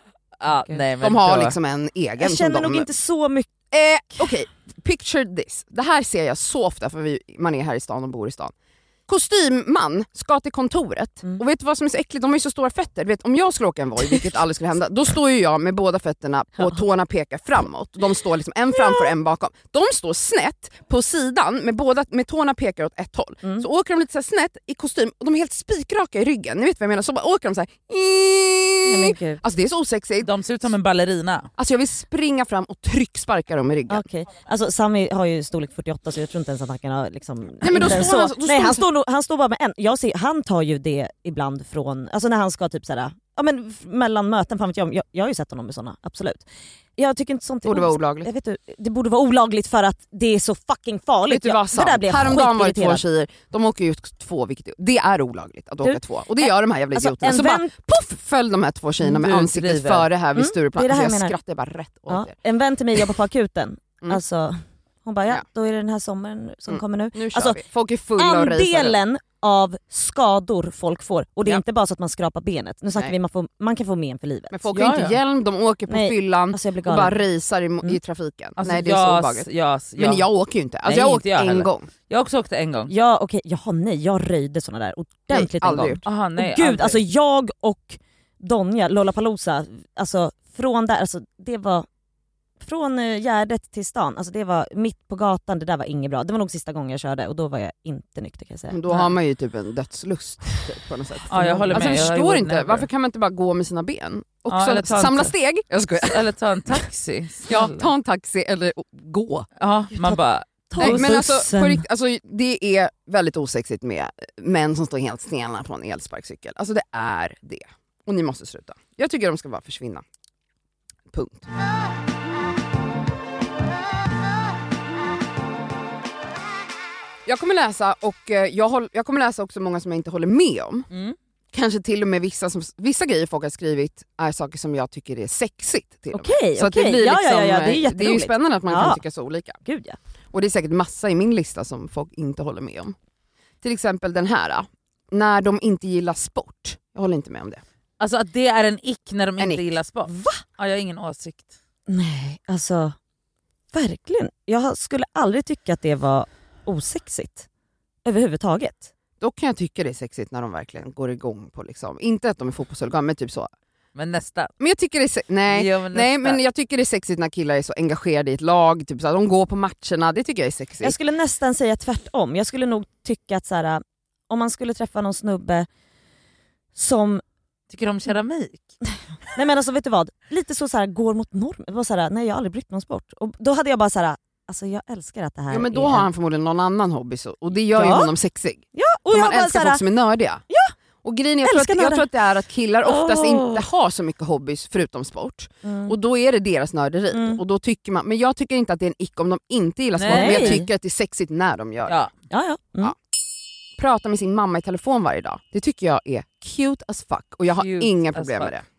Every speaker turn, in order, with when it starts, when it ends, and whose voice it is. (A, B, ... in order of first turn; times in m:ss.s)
0:00.4-0:01.6 A
0:01.0-0:02.9 B
0:02.2-0:03.5 C
0:03.7-0:08.5 B
0:09.1-0:30.3 B
0:28.8-0:29.4 C
0:30.2-0:31.5 A
0:31.6-0:34.0 B
0:33.9-0:53.0 C
0:37.6-0:38.8 B
0:47.6-0:48.3 B
0:51.3-1:02.3 B
0:55.8-0:57.7 C
0:59.0-1:00.1 A
1:00.4-1:01.4 C
1:02.1-1:07.6 C
1:06.7-1:09.0 B
1:08.2-1:14.6 C
1:14.5-1:19.5 B
1:14.7-1:15.2 A
1:15.9-1:17.2 C
1:18.6-1:20.3 A
1:20.0-1:21.9 B
1:20.8-1:22.9 A
1:22.9-1:31.9 C
1:25.3-1:26.0 B
1:26.0-1:27.0 A
1:32.6-1:39.1 C
1:38.7-1:46.2 B
1:41.3-1:42.9 A
1:41.7-1:42.0 C
1:44.5-1:45.3 A
1:46.0-1:47.9 A
1:47.5-1:49.5 B
1:49.6-1:51.1 A
1:50.7-1:51.8 C
1:50.8-2:00.0 B
2:01.1-2:01.5 B
2:07.3-2:10.9 B
2:11.5-2:19.6 B
2:16.1-2:19.0 C
2:19.6-2:20.0 C
2:20.3-2:23.0 B
2:23.6-2:27.6 B
2:28.0-2:31.5 A
2:29.4-2:29.6 B
2:30.1-2:30.4 C
2:31.9-2:33.0 C
2:33.7-2:37.5 C
2:38.0-2:38.9 C
2:39.2-2:43.5 B
2:44.0-2:44.5 A
2:44.6-2:51.0 B
2:45.5-2:46.4 A
2:50.8-2:55.7 C
2:56.8-2:57.2 C
2:57.7-2:58.8 A
2:59.3-3:06.1 C
3:05.5-3:10.4 B
3:07.7-3:08.1 C
3:08.7-3:09.8 C
3:11.0-3:22.0 B
3:11.4-3:12.1 C
3:12.8-3:13.6 A
3:15.6-3:15.9 C
3:17.1-3:17.4 C
3:20.0-3:20.6 A
3:20.1-3:20.7 C
3:22.3-3:22.9 C
3:23.8-3:28.6 B
3:27.6-3:28.5 A